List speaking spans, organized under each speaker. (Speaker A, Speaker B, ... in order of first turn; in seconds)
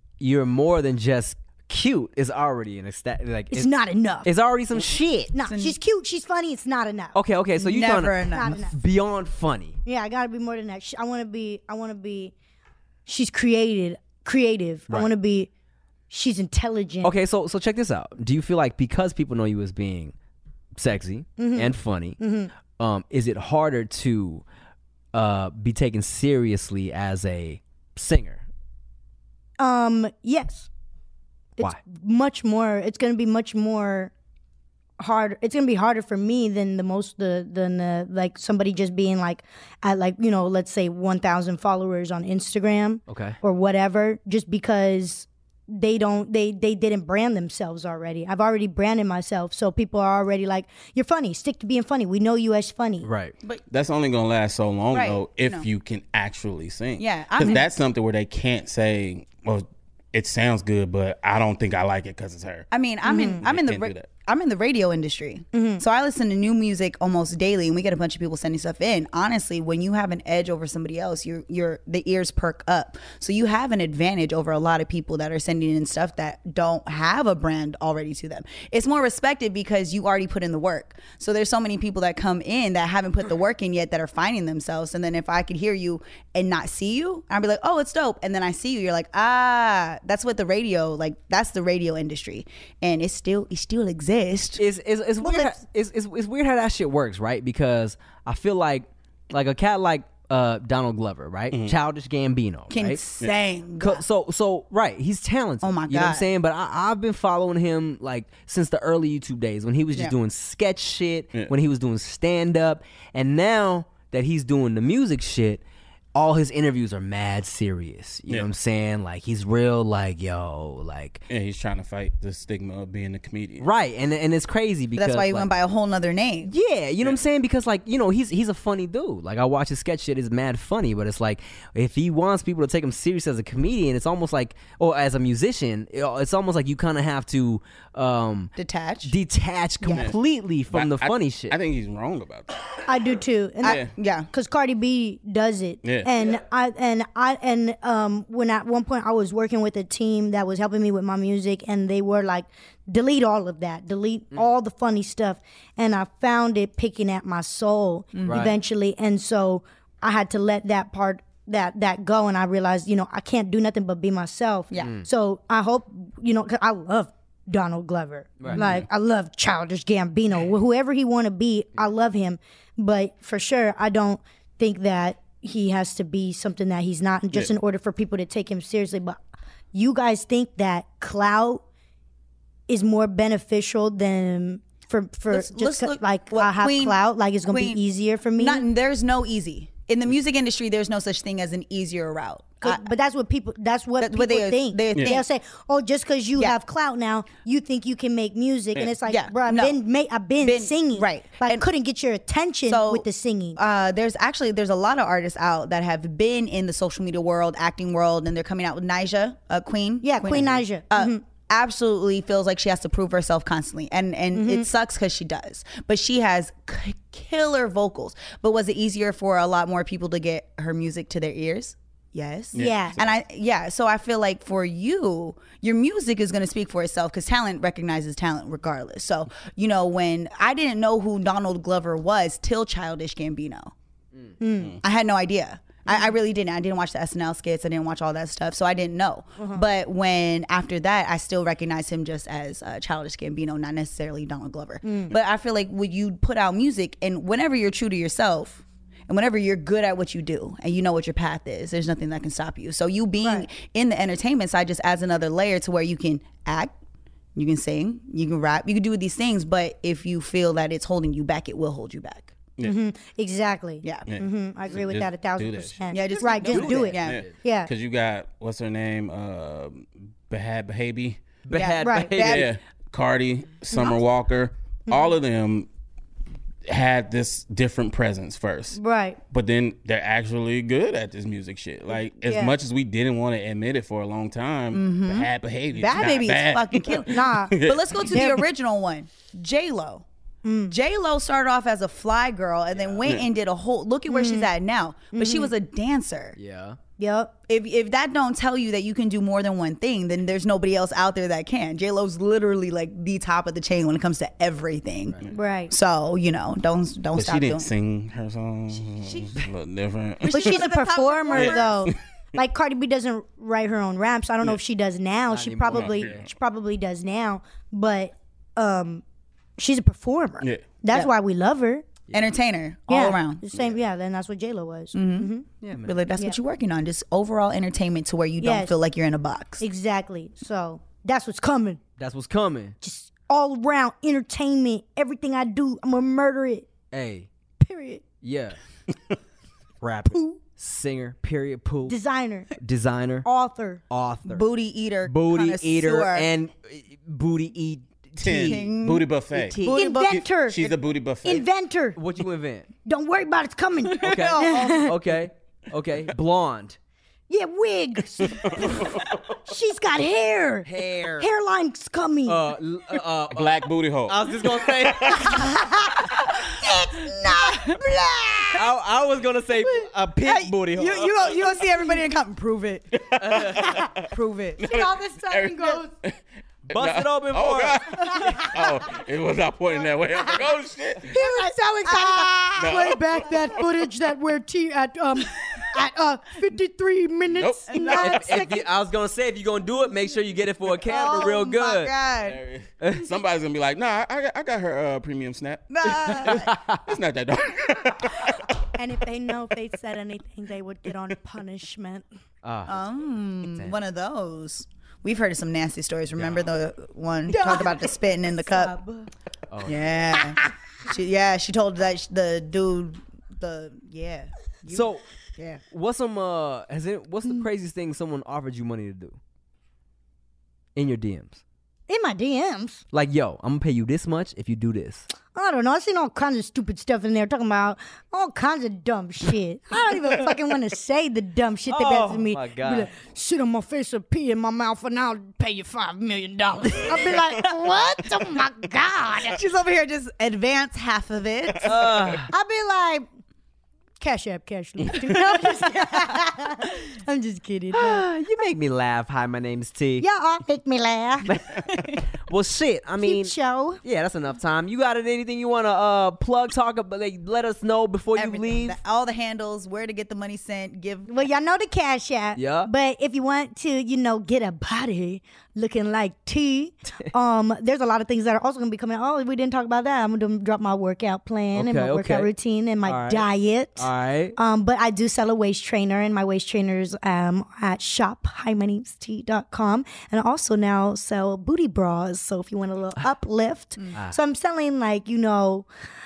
Speaker A: 0.2-3.7, 4.2-5.3, 7.1-9.8, 17.0-20.1, 20.8-22.2, 22.8-24.4, 25.1-28.4, 43.1-43.4, 53.0-53.3, 94.6-103.0, 103.8-115.6, 116.2-121.2, 123.6-125.5, 126.5-138.5, 139.1-141.6, 158.3-158.6, 164.8-165.1, 168.4-168.7, 266.4-267.3, 271.5-272.5, 292.8-293.0, 296.4-296.8, 315.3-316.3, 325.6-325.9, 332.0-332.8, 336.9-337.3, 338.2-338.6, 339.8-342.0, 342.6-343.3, 343.9-344.4, 345.1-348.7, 352.0-352.7, 354.0-356.8, 360.6-361.3, 362.3-365.5, 368.5-371.4, 373.1-373.7, 376.7-377.9, 387.8-391.9, 392.8-393.1, 396.4-396.8, 402.4-403.8, 406.1-406.5, 409.5-410.0, 414.7-415.0, 415.7-419.2, 420.8-421.4, 422.9-425.1, 431.7-432.9, 441.6-442.3, 447.7-450.1, 451.3-458.8, 462.4-462.7, 471.5-472.3, 472.9-474.4
Speaker B: 3.5-4.3, 5.3-7.2, 8.3-8.8, 9.8-12.3, 13.1-15.5, 16.1-17.1, 21.4-22.5, 29.6-30.7, 31.6-34.1, 35.0-53.1, 63.0-63.4, 65.5-65.8, 142.8-179.2, 179.7-181.6, 182.7-188.7, 192.6-203.6, 210.0-211.2, 214.4-214.7, 222.6-223.0, 234.4-234.8, 235.9-236.1, 239.4-239.6, 244.8-245.2, 262.6-267.7, 271.8-272.1, 274.9-275.2, 278.8-279.2, 282.2-282.6, 287.1-287.6, 288.1-288.5, 290.4-290.8, 294.1-294.5, 295.1-295.5, 297.0-297.3, 305.3-305.7, 310.3-319.0, 319.6-321.9, 322.9-325.5, 328.4-328.7, 329.6-331.8, 332.8-336.7, 337.6-338.1, 340.1-340.4, 341.9-342.5, 343.2-343.8, 349.6-350.7, 351.2-352.0, 352.9-355.0, 357.3-362.5, 365.0-368.6, 374.6-375.9, 378.1-378.6, 381.1-388.7, 398.5-402.1, 407.3-409.1, 421.9-422.8, 425.3-439.4, 442.3-443.1, 444.0-448.1, 450.0-451.4, 453.0-453.8, 461.1-485.7
Speaker C: 5.4-5.8, 7.6-8.6, 54.9-55.7, 57.0-57.6, 62.7-94.6, 102.7-104.0, 105.6-106.2, 125.0-126.5, 138.6-139.1, 143.6-144.3, 158.1-158.6, 185.3-187.8, 188.4-192.8, 194.0-195.3, 199.1-199.8, 200.4-201.7, 202.7-233.7, 234.8-256.8, 257.4-262.3, 265.9-267.2, 271.5-272.5, 284.7-290.1, 290.7-296.4, 297.5-307.7, 309.1-309.3, 310.2-311.9, 322.1-323.4, 324.9-325.3, 325.8-329.6, 344.3-346.3, 348.3-350.3, 353.9-354.9, 367.1-368.4, 370.2-373.0, 374.0-374.6, 381.2-382.8, 387.7-388.4, 390.8-392.4, 395.7-396.5, 402.7-408.8, 409.7-415.6, 439.2-442.0, 445.0-445.4, 458.1-461.1
Speaker D: 53.7-62.7, 63.4-64.1, 121.3-123.7, 139.9-140.2, 140.7-142.7, 143.6-143.9, 145.8-146.1, 168.6-168.9, 194.9-195.2, 222.5-223.2, 264.1-266.2, 267.0-271.2, 272.2-275.7, 276.7-288.3, 307.1-310.6, 311.3-312.0, 315.7-316.3, 320.4-320.7, 348.2-351.5, 358.3-359.1, 363.3-365.5, 372.9-374.1, 374.6-381.2, 382.6-383.9, 387.3-387.7, 392.2-398.4